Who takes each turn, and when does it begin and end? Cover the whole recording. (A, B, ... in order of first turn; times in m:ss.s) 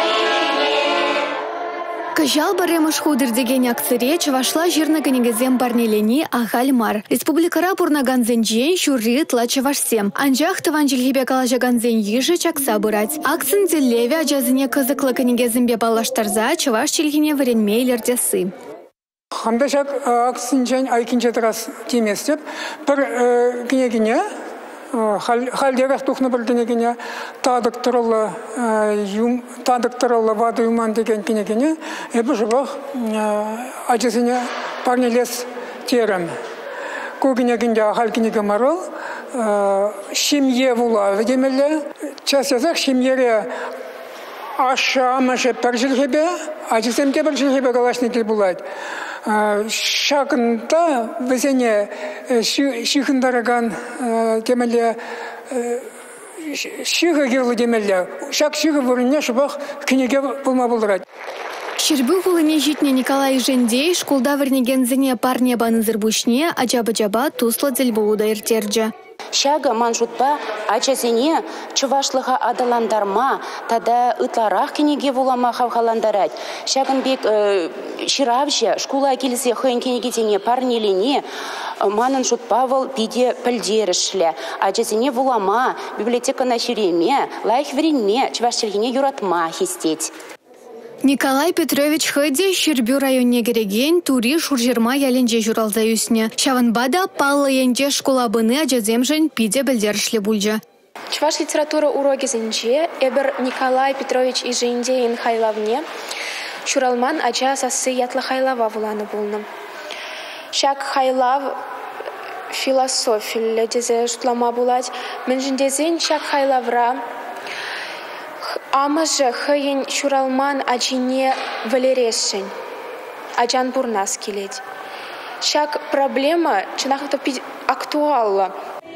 0:02.1-0:18.5 A
0:19.3-0:24.2 B
0:24.9-0:36.3 B
0:37.2-0:43.5 B
0:44.6-0:48.6 B
0:49.2-0:55.9 B
0:56.4-1:01.0 B
1:01.8-1:08.9 A
1:09.3-1:21.2 C
1:21.8-1:30.1 C
1:31.0-1:40.6 A
1:41.1-1:45.8 D
1:46.6-1:49.4 D
1:50.5-1:51.6 D
1:52.5-1:57.0 D
1:58.4-2:02.5 D
2:03.4-2:04.6 D
2:05.4-2:08.5 D